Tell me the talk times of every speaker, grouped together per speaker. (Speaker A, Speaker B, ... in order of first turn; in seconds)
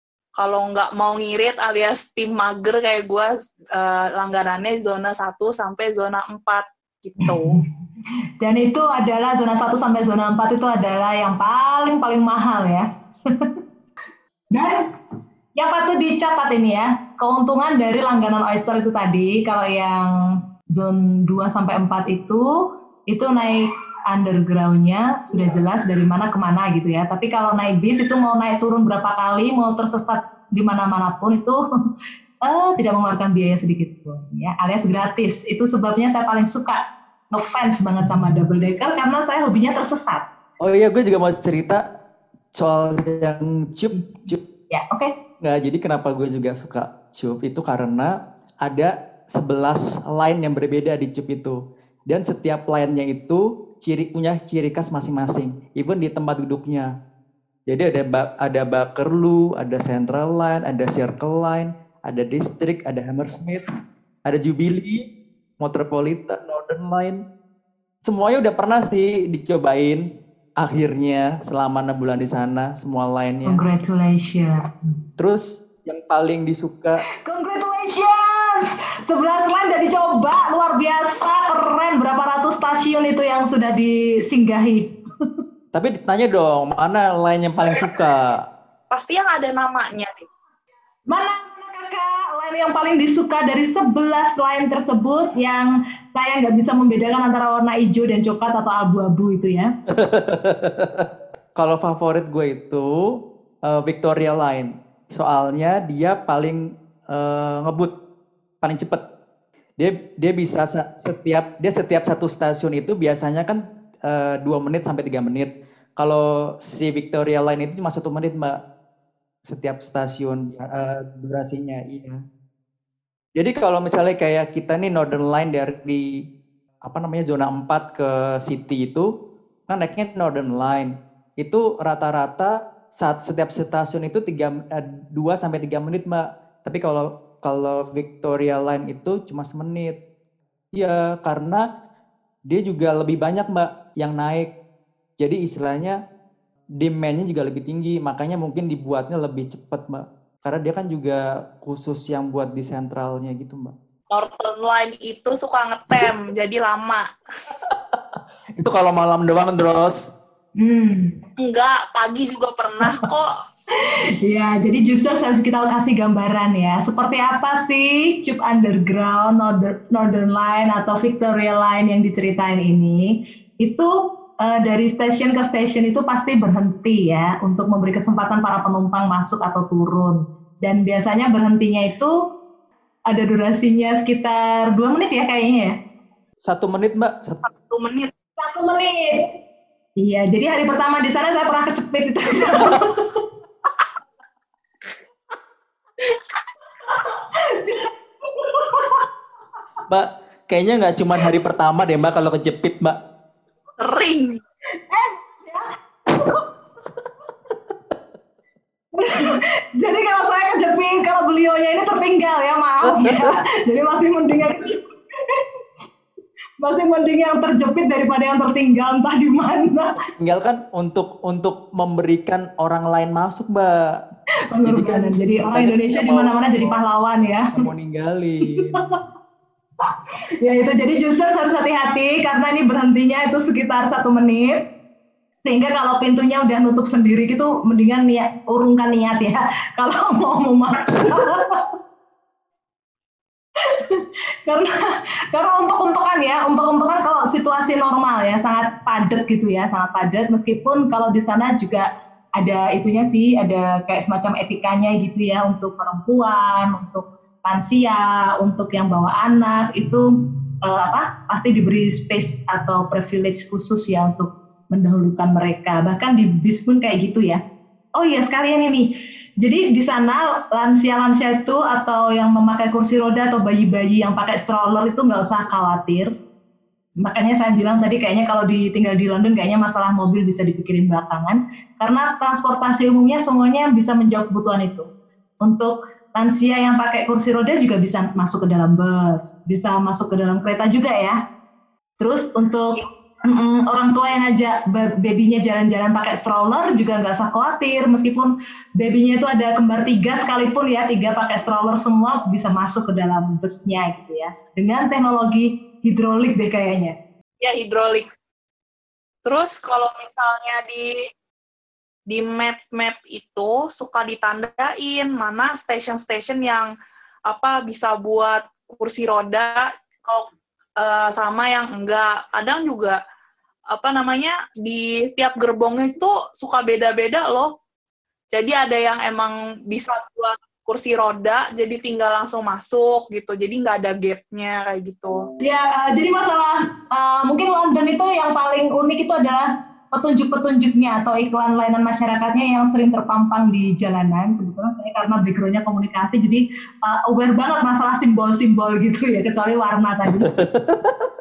Speaker A: 0.4-7.6, 88.9-90.3, 154.1-157.1, 161.4-163.3, 187.5-188.1, 203.8-204.4, 307.4-308.1, 309.2-311.0, 312.1-316.7, 317.3-323.0, 323.7-327.5, 328.3-335.2
Speaker B: 7.2-7.6, 8.4-13.6, 14.5-14.9, 15.6-31.6, 32.4-40.3, 44.7-45.1, 73.5-74.6, 77.2-84.9, 91.1-99.7, 160.6-161.2, 163.8-182.2, 183.1-185.8, 188.4-189.3, 190.0-193.2, 196.9-199.1, 204.9-206.4, 208.9-215.4, 216.6-220.0, 224.5-227.6, 228.5-229.0, 230.4-234.7, 235.4-241.7, 243.6-260.1, 260.6-267.4, 268.0-276.1, 277.0-284.9, 285.4-291.2, 292.0-306.9, 335.4-350.3
Speaker C: 40.6-41.8, 42.5-44.4, 45.4-56.9, 57.7-63.6, 64.3-65.1, 65.6-67.2, 68.0-70.1, 70.6-73.6, 75.2-77.0, 85.7-88.4, 99.9-103.2, 103.7-107.9, 108.6-109.0, 109.8-118.6, 119.5-122.2, 123.3-126.2, 126.8-129.1, 129.7-140.0, 140.7-141.7, 142.5-144.5, 145.2-146.0, 146.8-153.7, 157.7-158.0, 158.6-160.0, 186.4-187.4, 199.9-203.0, 212.9-213.3, 220.1-224.0, 224.6-226.8, 227.5-228.8, 350.2-351.1